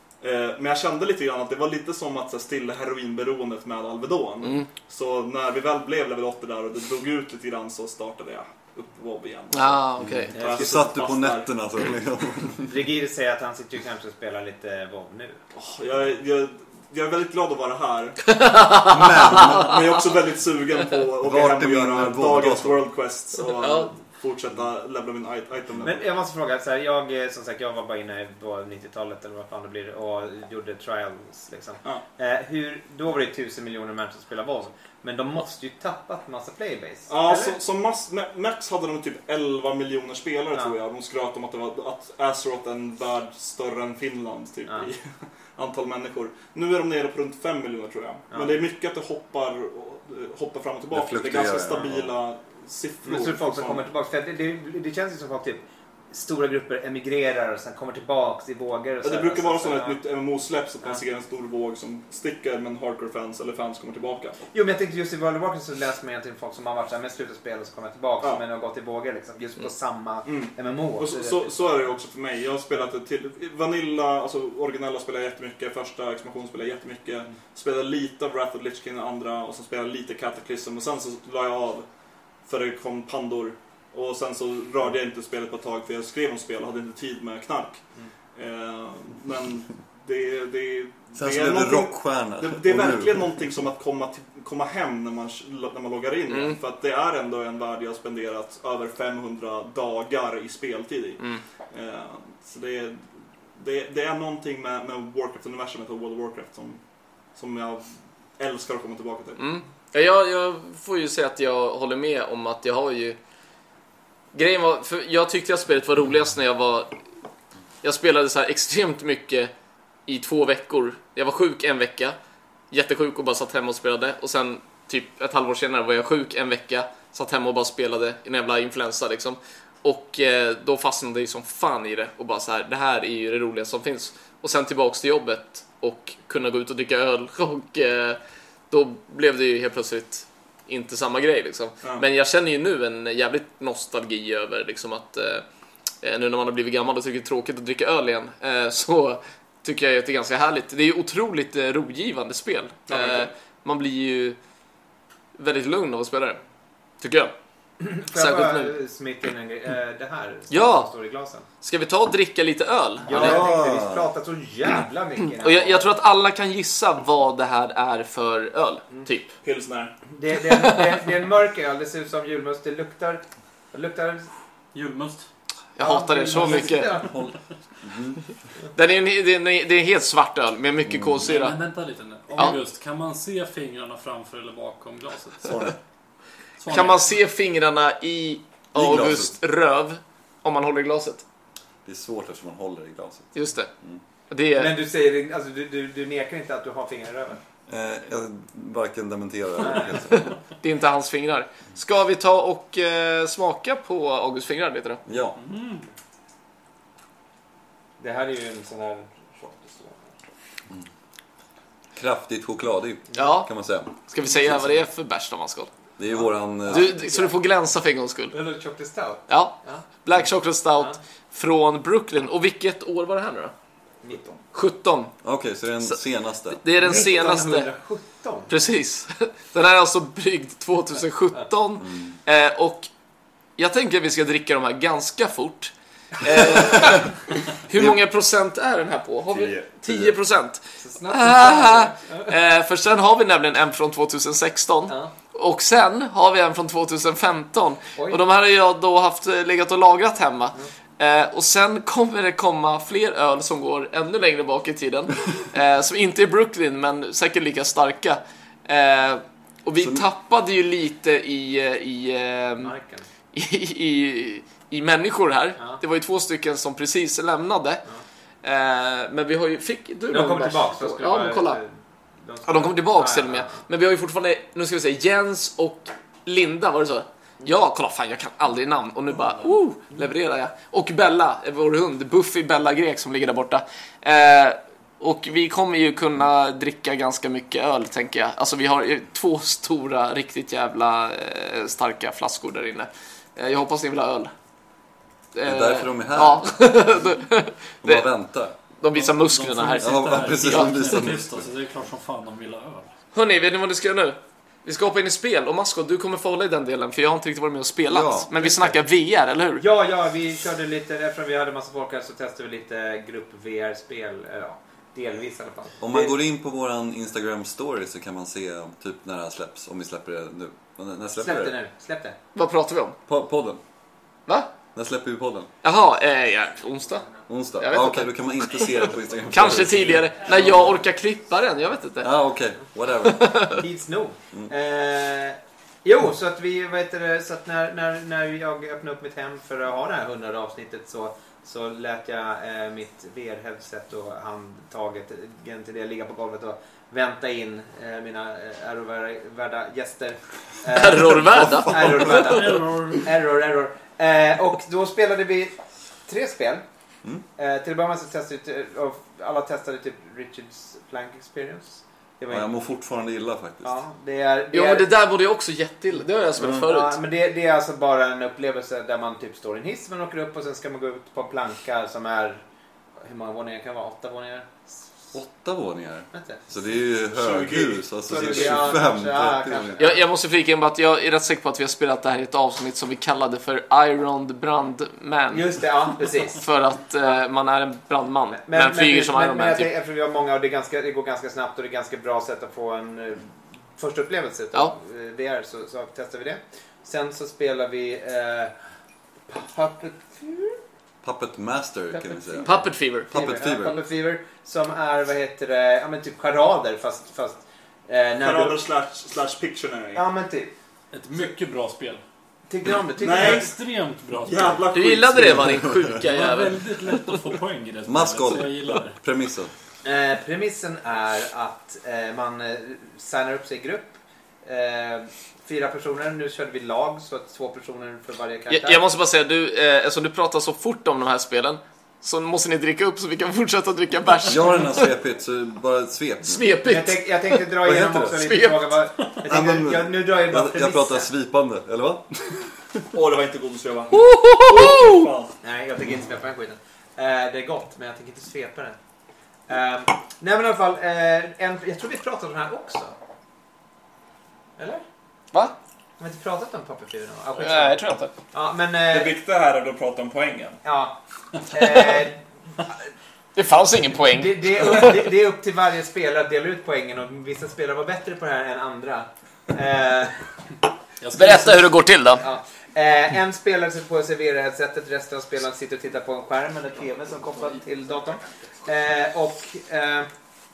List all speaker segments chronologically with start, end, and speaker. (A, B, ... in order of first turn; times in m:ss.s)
0:00.2-0:11.5 A
0:04.4-0:04.7 B
0:09.5-0:10.3 B
0:10.0-0:12.7 C
0:10.4-0:10.7 D
0:12.7-0:15.4 D
0:15.6-0:18.2 A
0:18.3-0:19.7 B
0:18.9-0:19.8 C
0:19.4-0:26.0 A
0:21.2-0:22.8 C
0:23.6-0:23.9 B
0:25.8-0:37.6 D
0:37.1-0:53.8 A
0:50.9-0:52.1 C
0:53.1-1:00.0 D
0:59.0-1:04.5 A
1:04.5-1:11.9 D
1:10.2-1:21.9 A
1:22.5-1:27.8 A
1:28.4-1:46.8 A
1:31.2-1:33.3 C
1:36.3-1:36.6 B
1:47.4-1:47.9 A
1:48.4-1:49.5 A
1:49.4-1:53.2 B
1:54.3-1:57.0 B
1:57.8-1:59.5 B
2:00.1-2:02.2 B
2:02.7-2:18.2 B
2:18.7-2:25.4 B
2:26.0-2:34.4 B
2:32.9-2:33.3 A
2:35.4-2:36.4 B
2:37.0-2:37.3 B
2:37.8-2:41.5 D
2:38.1-2:38.7 B
2:40.5-2:40.9 B
2:41.6-2:43.4 B
2:43.0-2:45.9 D
2:43.1-2:44.1 C
2:45.4-2:49.3 B
2:49.4-2:49.9 A
2:50.1-2:54.3 D
2:54.7-2:55.3 E
2:55.8-2:56.9 B
2:55.8-2:57.3 D
2:56.4-2:58.2 C
2:58.7-3:01.6 B
3:00.9-3:01.3 C
3:01.2-3:05.6 E
3:05.4-3:05.8 C
3:06.6-3:07.1 E
3:06.7-3:11.2 B
3:08.7-3:09.4 C
3:11.8-3:14.0 C
3:13.3-3:13.7 B
3:14.3-3:14.8 B
3:14.6-3:17.4 D
3:17.7-3:20.4 C
3:19.6-3:20.2 D
3:20.6-3:25.0 B
3:25.1-3:25.4 C
3:25.4-3:25.9 E
3:28.0-3:30.1 D
3:32.0-3:33.9 C
3:33.2-3:33.5 B
3:34.1-3:35.7 B
3:36.0-3:37.0 C
3:36.1-3:37.4 D
3:36.7-3:38.4 B
3:38.3-3:39.8 D
3:39.3-3:43.5 B
3:44.0-3:44.3 D
3:44.5-3:45.1 B
3:45.2-3:46.6 C
3:45.8-3:47.7 B
3:46.8-3:48.6 D
3:48.5-3:52.9 B
3:51.8-3:52.2 C
3:53.6-4:22.7 B
3:57.7-3:58.0 C
3:59.6-4:00.2 C
4:00.8-4:02.3 D
4:19.8-4:20.0 C
4:22.6-4:23.1 D
4:23.3-4:27.8 B
4:25.6-4:25.8 D
4:28.4-4:31.6 B
4:30.1-4:31.7 D
4:32.2-4:33.6 D
4:32.4-4:54.3 B
4:55.3-4:58.1 B
4:55.4-4:57.0 C
4:57.8-4:58.5 C
4:58.8-5:00.7 B
4:58.9-5:02.9 E
4:59.8-5:01.5 C
5:03.1-5:09.6 B
5:07.9-5:08.3 C
5:08.4-5:08.8 D
5:09.6-5:16.2 D
5:15.8-5:21.6 C
5:21.2-5:22.2 D
5:22.4-5:23.0 B
5:23.1-5:23.6 C
5:24.8-5:25.5 C
5:25.6-5:27.1 B
5:27.3-5:30.8 C
5:27.6-5:32.1 B
5:32.0-5:33.6 C
5:33.0-5:33.6 B
5:33.5-5:56.6 D
5:50.7-5:52.5 B
5:52.0-5:53.1 E
5:57.4-6:02.5 D
6:02.3-6:03.8 C
6:03.6-6:04.9 D
6:04.5-6:07.0 B
6:06.4-6:06.7 C
6:06.5-6:12.4 D
6:13.0-6:14.7 D
6:15.1-6:19.9 C
6:16.1-6:16.4 D
6:17.1-6:18.7 A
6:18.1-6:20.0 D
6:19.8-6:25.4 B
6:25.3-6:26.4 D
6:26.4-6:29.7 B
6:28.4-6:38.5 D
6:39.3-6:40.6 D
6:41.0-6:43.8 C
6:41.9-6:48.7 D
6:42.4-6:43.1 B
6:48.2-6:50.0 A
6:49.9-6:50.5 D
6:50.9-6:52.0 E
6:52.5-6:53.5 D
6:53.0-6:53.5 A
6:53.2-6:54.6 E
6:54.2-6:55.4 A
6:54.7-6:56.9 B
6:55.5-6:55.9 C
6:56.0-6:59.0 E
6:57.8-6:59.5 C
6:59.8-7:08.8 D
7:08.5-7:14.9 B
7:14.3-7:16.5 C
7:16.2-7:17.5 B
7:16.7-7:21.1 D
7:17.6-7:18.4 C
7:18.2-7:18.6 B
7:19.2-7:22.8 C
7:22.9-7:25.4 A
7:23.9-7:25.1 B
7:25.4-7:28.8 D
7:29.5-7:33.0 D
7:34.6-7:34.8 D
7:36.0-7:37.8 D
7:37.4-7:38.1 B
7:38.3-7:39.2 D
7:38.9-7:40.6 A
7:40.6-7:42.8 D
7:41.6-7:41.9 B
7:43.4-7:45.0 B
7:44.0-7:50.2 D
7:51.0-7:51.7 E
7:51.2-7:52.3 B
7:52.2-8:00.1 D